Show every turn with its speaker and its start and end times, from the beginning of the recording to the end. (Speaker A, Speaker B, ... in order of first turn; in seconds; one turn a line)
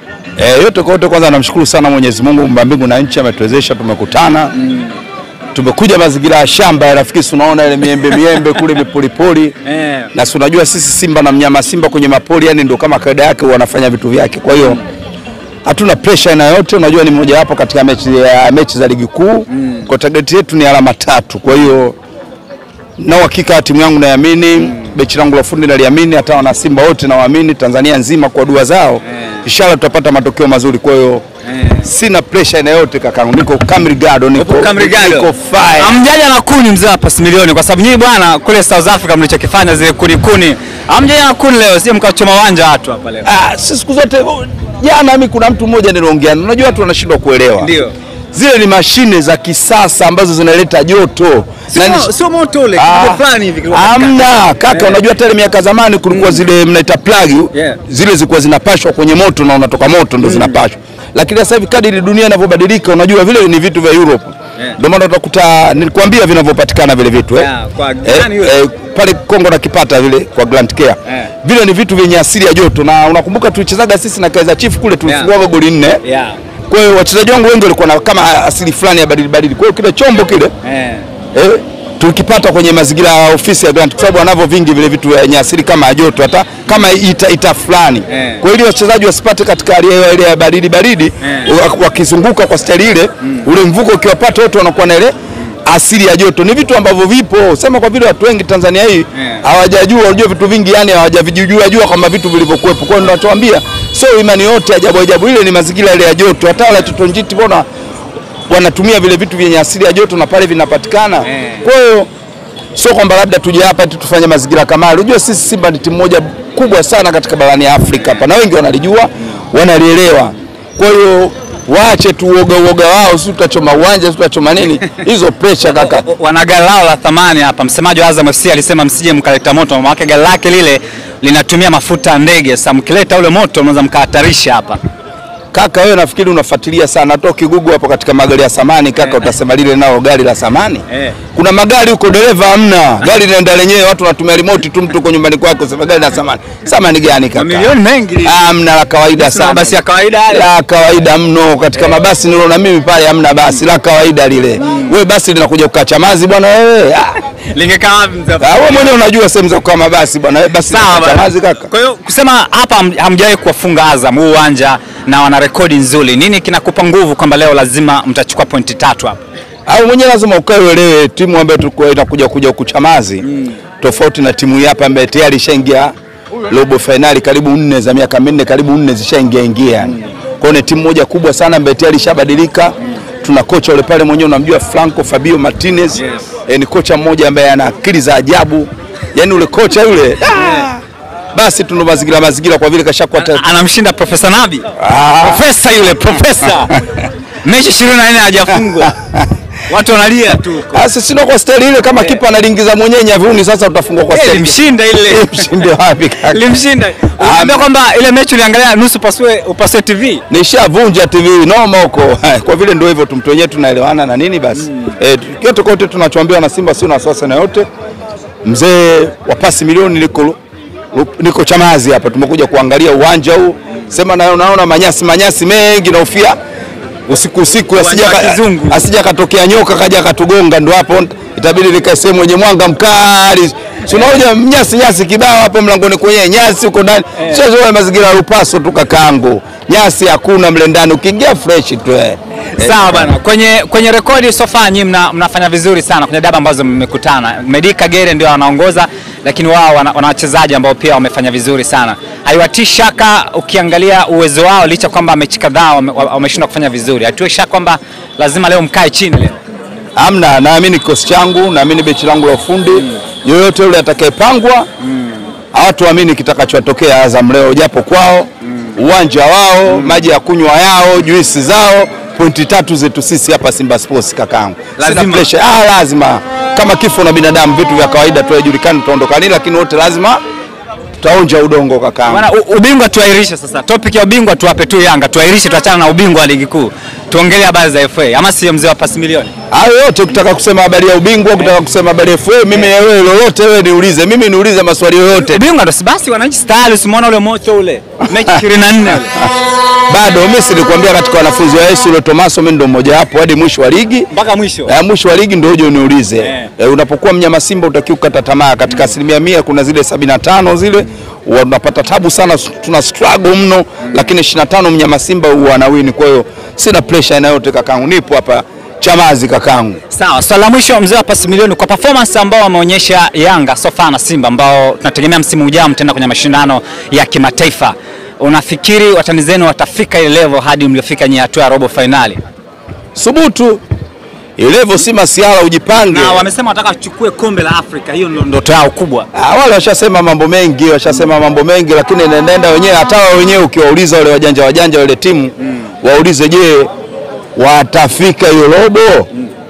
Speaker A: 0.4-4.5
Speaker B: 4.6-4.9
Speaker A: 5.5-9.5
Speaker B: 9.6-10.1
Speaker A: 10.1-14.8
Speaker A: 15.6-21.9
Speaker B: 19.5-19.9
Speaker A: 23.0-31.2
Speaker B: 31.4-31.9
Speaker A: 31.8-36.0
Speaker B: 34.4-43.3
Speaker A: 43.2-47.7
Speaker B: 47.6-47.9
Speaker A: 48.3-52.1
Speaker B: 51.7-55.0
Speaker A: 52.7-67.5
Speaker B: 56.1-56.4
Speaker B: 57.5-57.8
Speaker B: 60.2-60.6
Speaker B: 67.3-68.5
Speaker A: 68.0-76.0
Speaker B: 75.0-75.3
Speaker B: 76.0-76.4
Speaker A: 76.7-80.5
Speaker B: 80.6-81.1
Speaker A: 81.3-95.1
Speaker B: 88.1-88.4
Speaker B: 91.2-91.5
Speaker A: 95.6-107.7
Speaker B: 99.2-99.4
Speaker A: 108.5-112.1
Speaker B: 111.2-111.6
Speaker A: 112.8-126.0
Speaker B: 125.6-134.8
Speaker A: 135.5-157.2
Speaker B: 140.9-141.2
Speaker B: 147.3-148.5
Speaker B: 149.1-150.5
Speaker B: 154.6-154.9
Speaker B: 157.5-158.9
Speaker A: 158.4-161.7
Speaker B: 160.6-169.2
Speaker A: 169.7-173.2
Speaker A: 173.8-175.9
Speaker A: 176.5-190.8
Speaker B: 185.9-186.2
Speaker B: 190.3-190.7
Speaker A: 191.3-193.4
Speaker B: 193.1-194.7
Speaker A: 194.8-195.4
Speaker B: 195.2-196.8
Speaker B: 197.4-199.0
Speaker B: 199.7-200.8
Speaker A: 200.7-206.4
Speaker B: 204.1-205.6
Speaker B: 206.2-210.2
Speaker A: 207.2-207.7
Speaker A: 210.3-217.7
Speaker B: 214.6-214.9
Speaker A: 218.4-220.4
Speaker A: 220.9-226.3
Speaker A: 227.1-243.1
Speaker B: 227.7-228.8
Speaker B: 233.9-234.2
Speaker B: 237.2-237.4
Speaker B: 242.6-259.4
Speaker A: 259.9-264.7
Speaker A: 265.5-280.2
Speaker B: 269.7-270.0
Speaker B: 274.8-275.3
Speaker A: 281.0-282.3
Speaker B: 282.1-289.3
Speaker A: 289.5-295.4
Speaker B: 295.1-299.2
Speaker A: 299.9-304.1
Speaker B: 304.1-304.7
Speaker A: 304.7-319.8
Speaker B: 306.2-306.5
Speaker B: 319.9-332.2
Speaker A: 332.9-333.6
Speaker A: 334.4-336.3
Speaker B: 335.8-339.1
Speaker A: 339.1-346.7
Speaker A: 347.4-349.1